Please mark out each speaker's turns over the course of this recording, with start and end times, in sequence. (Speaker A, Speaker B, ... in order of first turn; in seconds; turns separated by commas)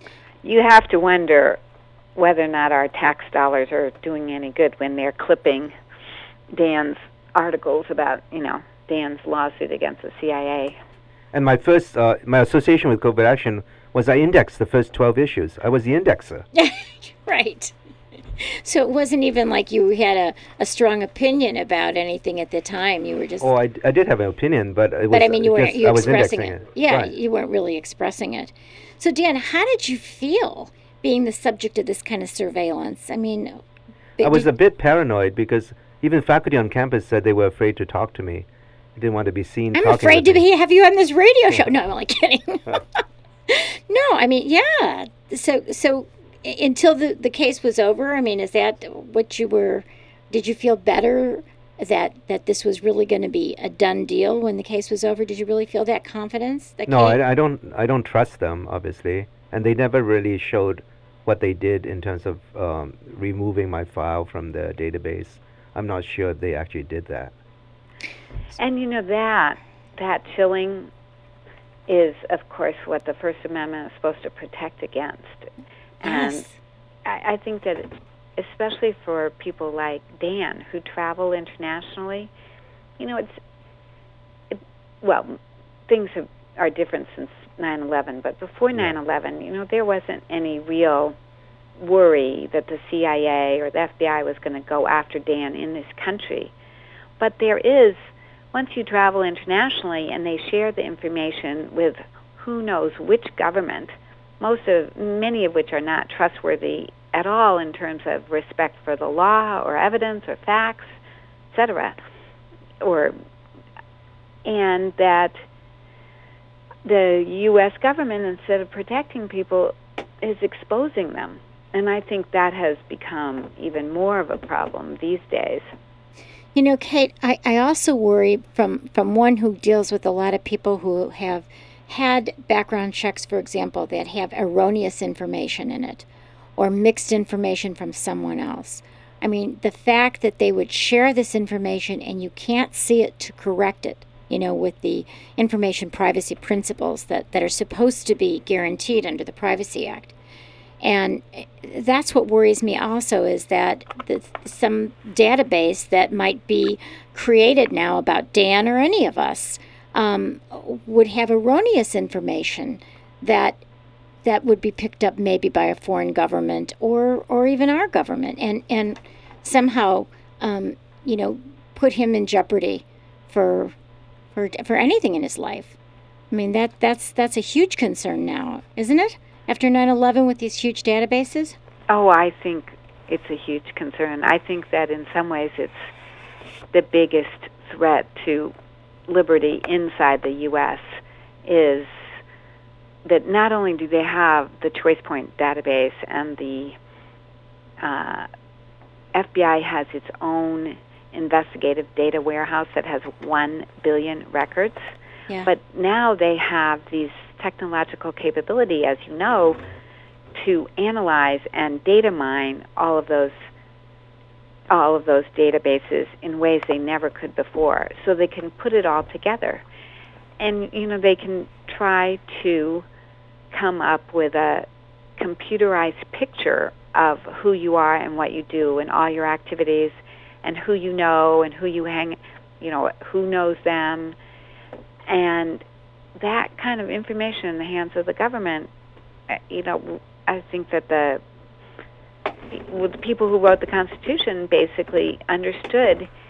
Speaker A: 0.4-1.6, Speaker A: 2.1-5.7, Speaker A: 6.5-10.8, Speaker B: 11.3-16.4, Speaker C: 16.5-17.7, Speaker C: 18.4-23.5, Speaker B: 23.4-27.1, Speaker C: 25.1-33.6, Speaker C: 34.2-34.5, Speaker B: 34.2-40.4, Speaker C: 39.7-57.2, Speaker B: 56.9-67.3, Speaker A: 68.6-70.9, Speaker A: 71.9-75.5, Speaker A: 76.0-76.5, Speaker C: 76.0-76.5, Speaker A: 77.0-82.3, Speaker A: 83.0-83.4, Speaker A: 84.5-91.1, Speaker A: 91.8-96.5, Speaker A: 97.2-98.0, Speaker A: 98.5-110.9, Speaker A: 111.5-112.0, Speaker A: 112.8-113.2, Speaker A: 114.4-115.4, Speaker A: 116.8-125.7, Speaker C: 126.5-136.0, Speaker C: 136.6-150.1, Speaker C: 150.8-163.6, Speaker C: 164.2-173.7, Speaker C: 174.3-175.7, Speaker C: 176.3-181.6, Speaker A: 181.9-185.8, Speaker A: 186.7-188.5, Speaker A: 189.1-191.9, Speaker A: 193.0-196.8, Speaker A: 197.8-198.3, Speaker A: 199.1-204.9, Speaker A: 205.4-209.6, Speaker A: 210.3-213.5, Speaker A: 214.7-219.6, Speaker A: 220.4-222.8, Speaker A: 223.5-224.7, Speaker A: 225.2-234.2, Speaker A: 235.1-235.6, Speaker A: 236.2-238.7, Speaker A: 239.3-241.2, Speaker A: 242.5-246.1